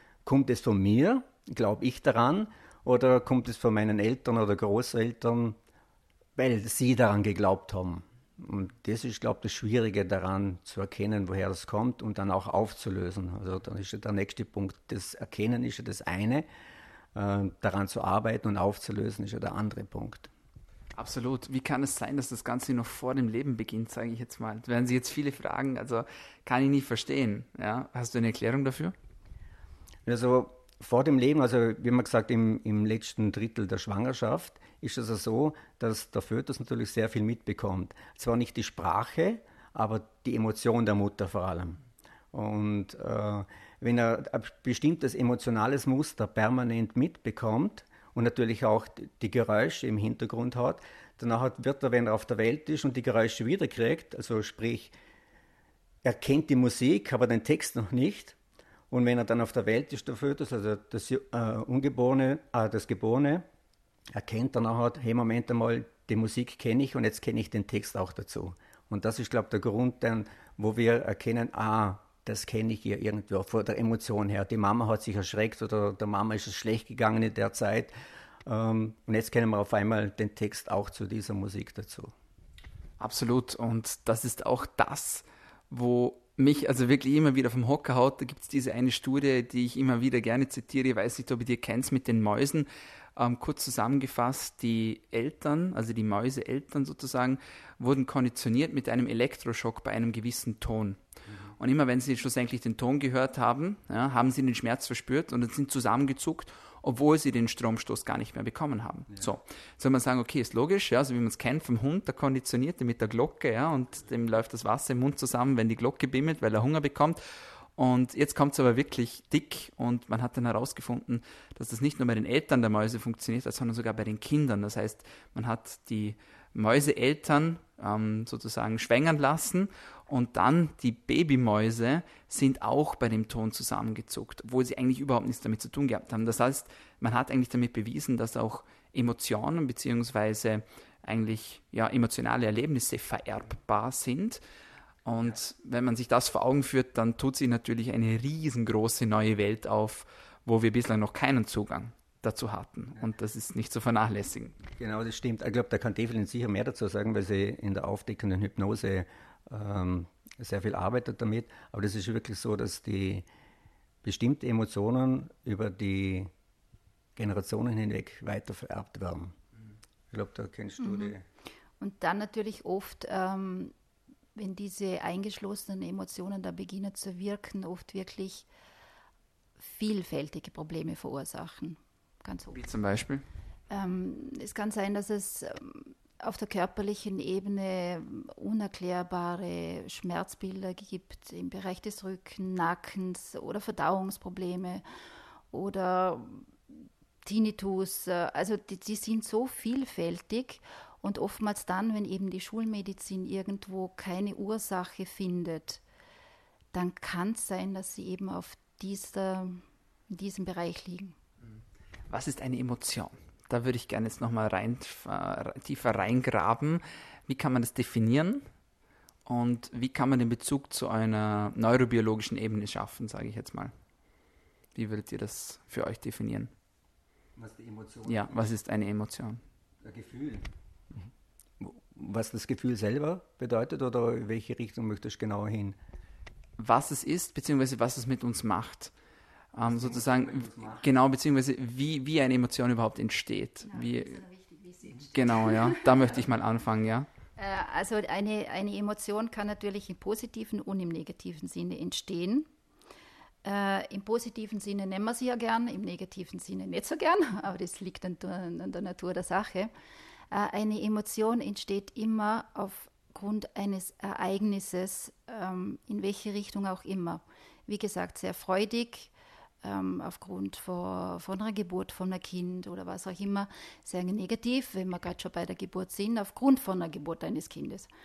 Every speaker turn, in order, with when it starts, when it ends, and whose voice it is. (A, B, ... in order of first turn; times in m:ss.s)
0:00.2-0:05.6 A
0:06.4-0:16.4 A
0:17.1-0:20.3 A
0:20.9-0:28.9 B
0:30.0-0:54.9 A
0:56.0-0:58.4 A
0:58.9-1:03.4 A
1:04.1-1:17.9 A
1:18.4-1:22.1 A
1:23.0-1:41.0 B
1:41.3-1:41.5 A
1:41.6-1:57.2 B
1:57.8-2:24.4 B
2:25.0-2:34.6 B
2:34.8-2:43.2 A
2:44.0-2:46.3 A
2:47.2-2:49.3 A
2:50.1-2:51.2 A
2:50.8-2:51.2 C
2:51.8-2:53.7 C
2:54.4-2:58.5 C
2:59.6-3:02.6 C
3:02.5-3:03.2 B
3:03.7-3:14.8 C
3:15.5-3:25.8 C
3:26.7-3:31.2 C
3:32.1-3:38.5 B
3:39.2-3:43.7 B
3:44.7-3:46.5 B
3:47.4-3:48.4 A
3:48.0-3:49.4 B
3:49.8-3:55.8 A
3:56.6-3:58.9 B
3:59.5-4:04.2 B
3:59.6-4:00.9 A
4:03.6-4:05.8 C
4:05.1-4:07.1 B
4:07.4-4:12.5 C
4:13.4-4:19.7 C
4:20.3-4:37.9 C